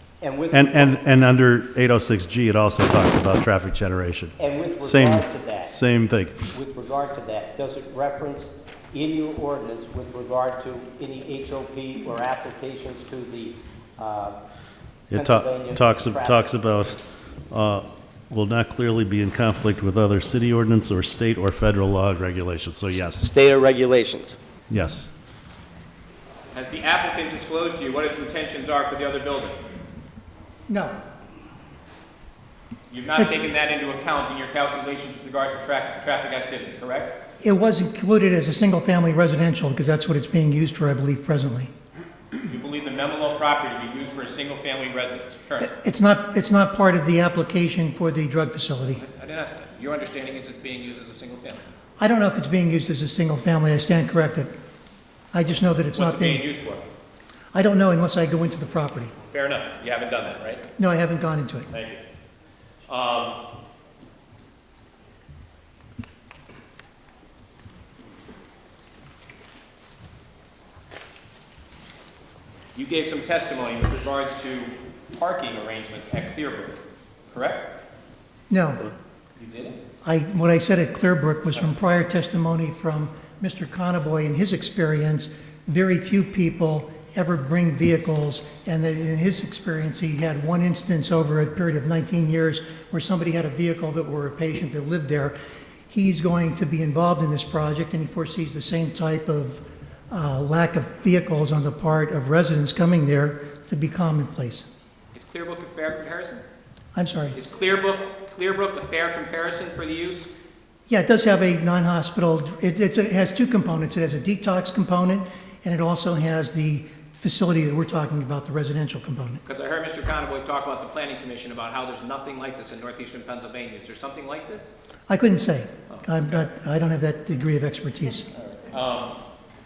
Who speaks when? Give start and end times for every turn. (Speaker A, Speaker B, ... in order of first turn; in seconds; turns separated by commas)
Speaker A: 0.2-1.0, Speaker B: 0.5-6.5, Speaker A: 4.4-5.8, Speaker A: 6.5-14.4, Speaker B: 15.1-23.3, Speaker A: 15.1-16.5, Speaker A: 23.1-24.4, Speaker B: 24.7-25.1, Speaker C: 26.5-29.6, Speaker D: 30.7-31.0, Speaker C: 32.9-37.2, Speaker D: 37.4-41.7, Speaker C: 42.5-45.7, Speaker D: 45.6-49.0, Speaker C: 48.9-51.7, Speaker D: 52.0-54.5, Speaker D: 55.3-56.5, Speaker C: 55.9-56.9, Speaker D: 57.5-59.1, Speaker C: 59.3-60.6, Speaker D: 60.8-61.7, Speaker C: 61.7-62.0, Speaker C: 62.9-63.4, Speaker C: 72.8-77.7, Speaker D: 78.5-78.9, Speaker C: 79.4-79.8, Speaker D: 80.0-95.4, Speaker D: 95.9-104.7, Speaker C: 105.2-106.4, Speaker D: 107.0-107.4, Speaker C: 107.3-110.3, Speaker D: 110.9-119.4, Speaker C: 119.5-124.7, Speaker D: 125.1-128.3, Speaker C: 125.9-126.5, Speaker C: 128.3-129.2